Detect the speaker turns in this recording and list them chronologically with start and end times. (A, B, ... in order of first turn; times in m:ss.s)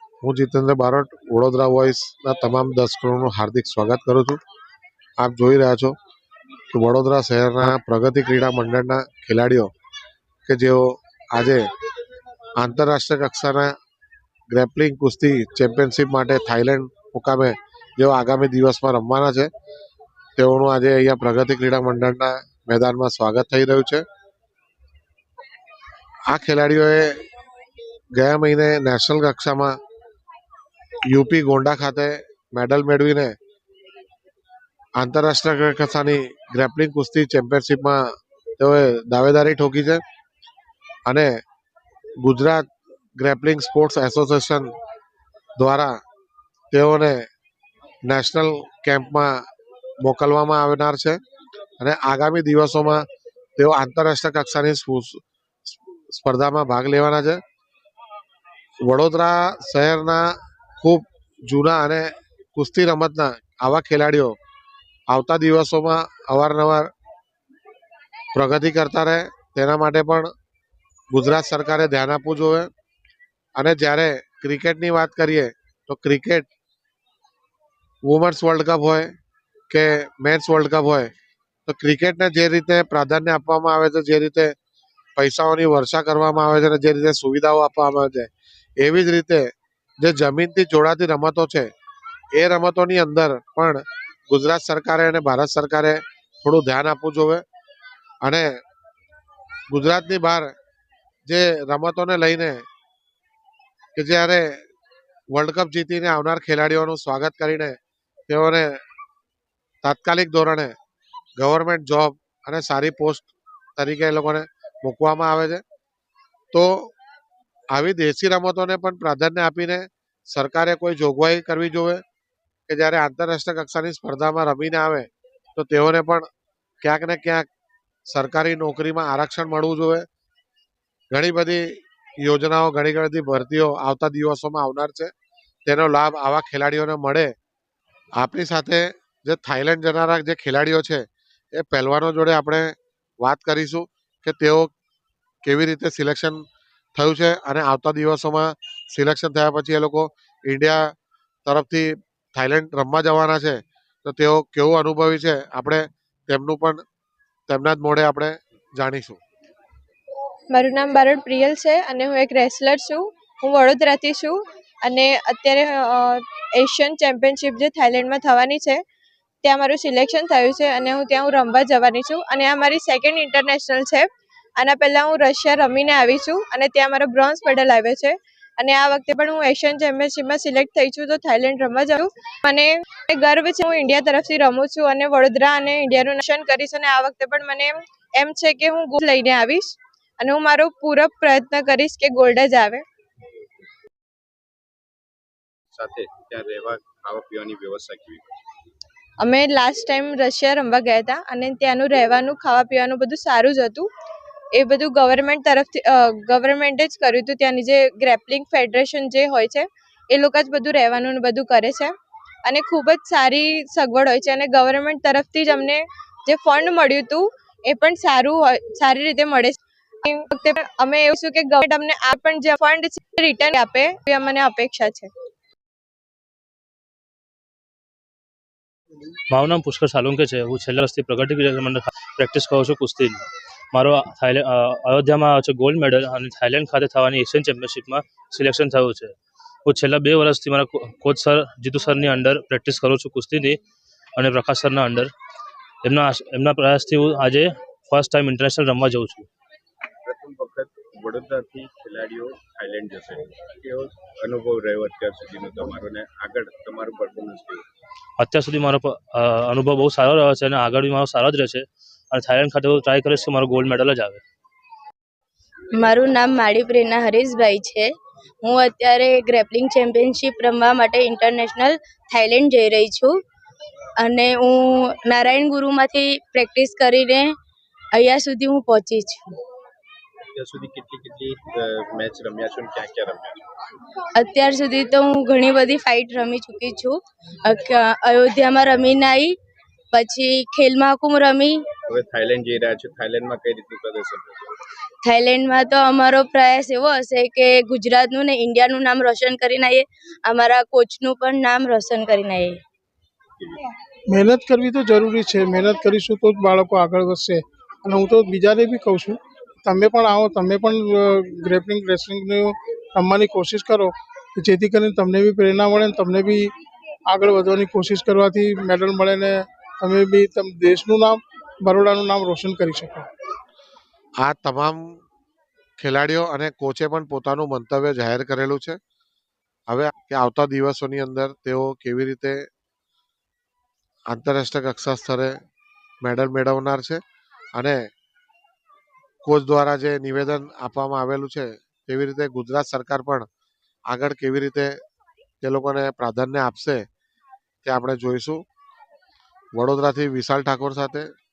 0:00.2-0:04.4 A
0:05.2-0:06.0 A
0:06.7-0:09.7 A
0:10.5-0:11.6 A
0:12.6-0:13.7 A
0:14.5-0:19.5 A
0:20.4-0:24.0 A
0:26.3-0:27.2 A
0:28.1-0:29.7 A
0:31.1-0:33.3 A
0:35.0-0:38.0 A
0:38.6-0:40.0 A
0:42.2-0:42.6 A
0:43.2-0:44.7 A
0:45.6-0:46.0 A
0:46.7-0:47.2 A
0:48.0-0:49.3 A
0:50.0-0:51.2 A
0:51.8-0:53.0 A
0:53.6-0:55.2 A
0:56.1-0:57.4 A
0:58.8-1:00.2 A
1:00.8-1:04.3 A
1:05.1-1:06.9 A
1:08.3-1:10.3 A
1:11.1-1:12.7 A
1:13.6-1:16.5 A
1:18.0-1:19.1 A
1:19.7-1:21.1 A
1:21.7-1:24.5 A
1:25.2-1:29.4 A
1:30.0-1:31.7 A
1:32.3-1:37.4 A
1:38.2-1:38.5 A
1:39.7-1:40.5 A
1:41.3-1:42.6 A
1:44.0-1:44.5 A
1:45.3-1:47.8 A
1:48.3-1:48.8 A
1:49.8-1:50.7 A
1:51.4-1:55.6 A
1:57.7-2:02.0 A
2:02.7-2:06.2 A
2:06.8-2:07.4 A
2:08.1-2:10.0 A
2:11.1-2:11.7 A
2:12.2-2:15.1 A
2:15.7-2:17.3 A
2:18.2-2:24.7 A
2:25.4-2:26.4 A
2:26.9-2:30.9 A
2:31.5-2:36.8 A
2:37.5-2:39.2 A
2:40.6-2:48.8 B
2:49.4-2:54.1 B
2:54.6-3:12.8 B
3:15.7-3:18.2 C
3:19.2-3:23.9 B
3:24.6-3:31.9 B
3:32.5-3:45.1 B
3:49.3-3:53.2 D
3:53.7-3:59.2 D
3:59.7-4:03.6 D
4:04.2-4:05.1 D
4:05.8-4:09.3 D
4:10.0-4:17.6 C
4:18.2-4:24.2 D
4:25.8-4:33.2 E
4:34.0-4:37.3 E
4:37.9-4:39.4 E
4:40.3-4:43.4 C
4:44.2-4:49.4 E
4:49.9-4:51.6 E
4:51.9-4:54.4 C
4:55.0-5:02.6 E
5:04.1-5:16.5 F
5:17.1-5:23.1 F
5:24.2-5:24.8 A
5:25.8-5:28.8 A
5:29.7-5:32.4 A
5:34.1-5:35.4 A
5:36.0-5:37.0 A
5:39.2-5:43.3 A
5:43.9-5:44.7 A
5:45.4-5:46.8 A
5:47.6-5:48.4 A
5:49.6-5:51.1 A